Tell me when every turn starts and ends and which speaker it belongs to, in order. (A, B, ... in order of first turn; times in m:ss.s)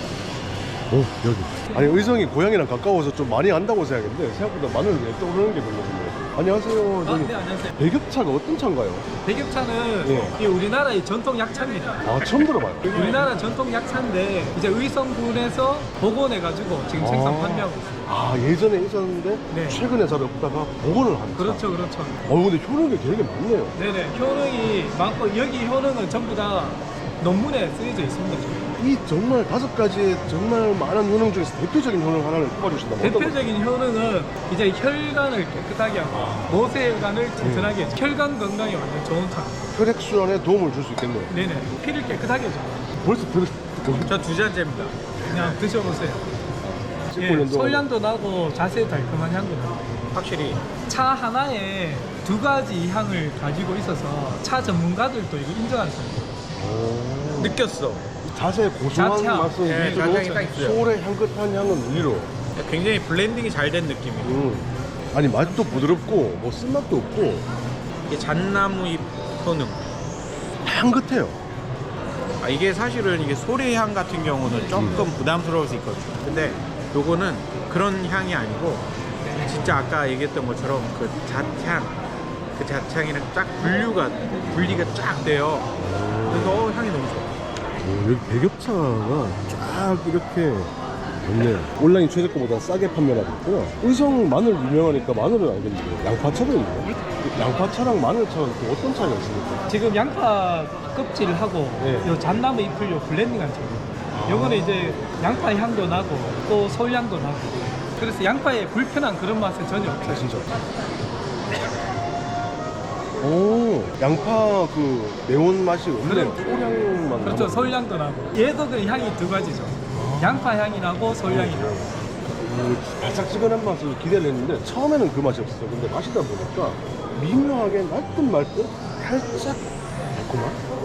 0:00.9-0:09.1 A
0:07.0-0:07.8 B
0:09.2-0:12.0 B
0:10.0-0:10.4 A
0:12.0-0:13.0 A
0:12.8-0:18.0 B
0:12.9-0:13.3 C
0:17.0-0:23.7 A
0:19.5-0:19.8 B
0:21.3-0:22.3 B
0:23.8-0:28.7 B
0:28.8-0:33.5 A
0:33.0-0:39.6 B
0:36.1-0:36.5 A
0:37.4-0:37.8 A
0:39.7-0:41.3 A
0:41.3-0:42.8 B
0:43.0-0:44.1 A
0:43.9-0:45.6 C
0:45.3-0:46.2 B
0:46.6-0:47.9 A
0:47.2-0:49.8 B
0:50.1-0:50.6 C
0:50.9-0:56.3 B
0:56.6-0:57.6 A
0:57.4-0:58.0 C
0:58.2-1:02.3 A
0:58.9-1:00.5 B
0:59.6-1:00.8 C
1:02.6-1:04.4 C
1:04.2-1:07.4 A
1:08.1-1:09.8 C
1:10.6-1:11.4 A
1:12.4-1:22.0 C
1:14.8-1:15.0 A
1:22.6-1:25.7 C
1:25.8-1:26.7 A
1:26.3-1:27.3 C
1:27.8-1:39.6 A
1:39.7-1:50.3 B
1:41.8-1:42.1 A
1:44.1-1:45.0 A
1:50.0-1:50.6 A
1:53.2-1:57.8 A
1:56.0-1:56.4 B
1:57.2-2:01.9 B
1:59.9-2:00.5 A
2:01.2-2:10.6 A